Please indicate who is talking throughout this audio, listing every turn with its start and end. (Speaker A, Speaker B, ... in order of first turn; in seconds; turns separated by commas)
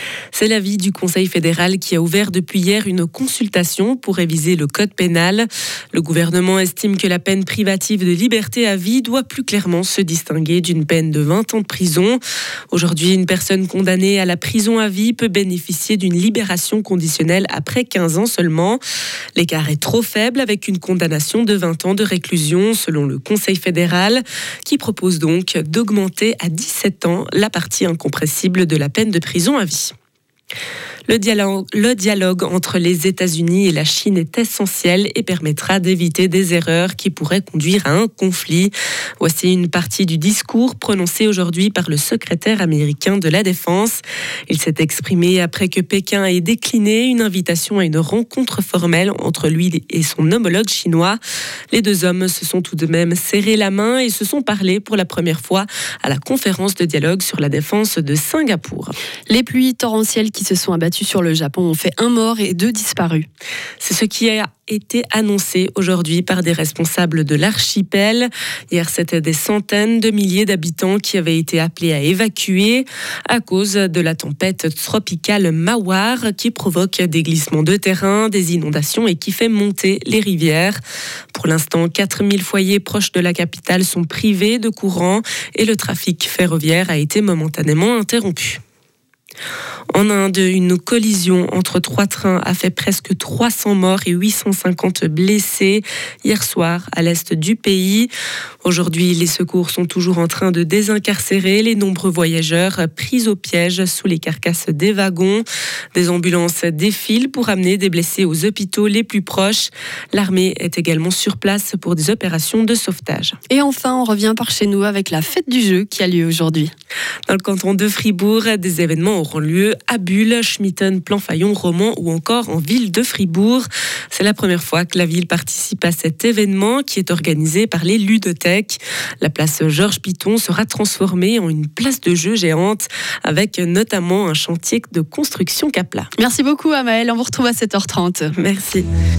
Speaker A: 0.3-12.2, Speaker A: 12.7-18.8, Speaker A: 19.4-29.9, Speaker A: 31.1-51.2, Speaker A: 51.7-58.9, Speaker B: 59.3-63.3, Speaker A: 63.8-80.8, Speaker A: 81.3-88.6, Speaker A: 89.9-98.1, Speaker A: 98.6-113.3, Speaker B: 113.5-116.7, Speaker A: 117.3-136.1, Speaker B: 136.2-138.3, Speaker A: 138.4-138.8